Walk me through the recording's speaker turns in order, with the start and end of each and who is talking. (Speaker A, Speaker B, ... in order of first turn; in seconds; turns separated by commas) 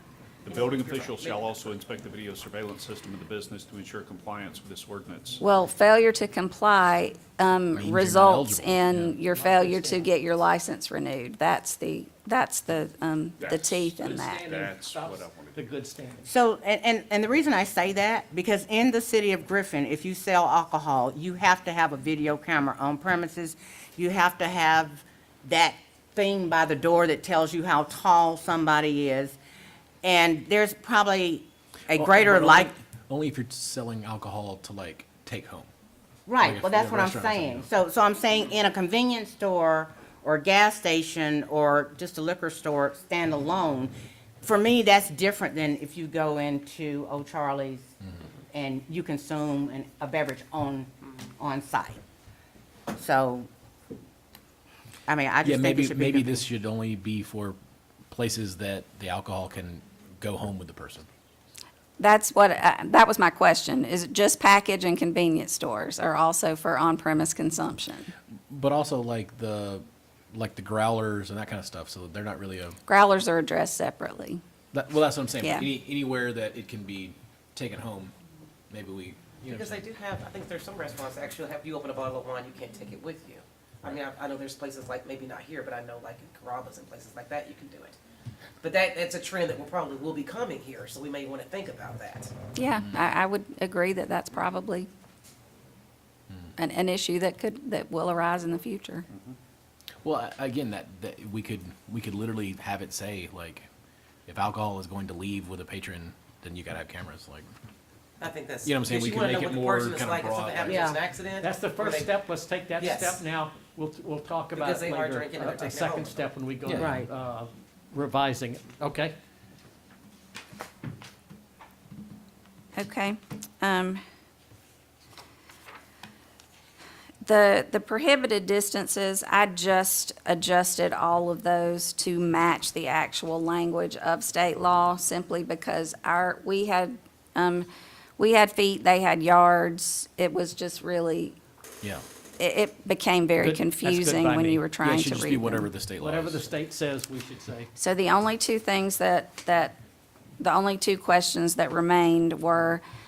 Speaker A: 0.4-5.4, Speaker B: 0.6-1.7, Speaker C: 5.4-14.7, Speaker D: 7.7-9.2, Speaker E: 9.3-10.1, Speaker A: 13.4-15.6, Speaker E: 14.0-16.2, Speaker F: 16.2-29.4, Speaker F: 30.0-32.7, Speaker D: 31.9-35.7, Speaker F: 36.3-47.9, Speaker D: 36.4-37.7, Speaker F: 48.5-52.0, Speaker F: 52.9-53.5, Speaker F: 55.1-56.4, Speaker D: 55.4-57.6, Speaker D: 58.1-61.1, Speaker C: 62.0-68.1, Speaker D: 68.5-72.8, Speaker C: 72.8-74.4, Speaker D: 74.7-78.1, Speaker C: 75.4-75.7, Speaker D: 78.7-79.8, Speaker B: 79.4-88.0, Speaker B: 88.6-92.3, Speaker C: 92.5-94.9, Speaker C: 96.6-99.1, Speaker D: 100.0-103.7, Speaker D: 104.2-107.5, Speaker B: 108.2-112.2, Speaker D: 108.6-110.9, Speaker F: 110.7-111.0, Speaker E: 111.4-119.2, Speaker B: 112.8-113.2, Speaker B: 114.5-116.3, Speaker D: 116.7-116.9, Speaker F: 116.7-117.1, Speaker C: 122.7-124.0, Speaker C: 127.2-141.4, Speaker C: 142.4-145.7, Speaker E: 143.4-144.7, Speaker D: 144.8-146.5, Speaker E: 145.9-147.7, Speaker C: 147.8-149.8, Speaker C: 150.4-152.8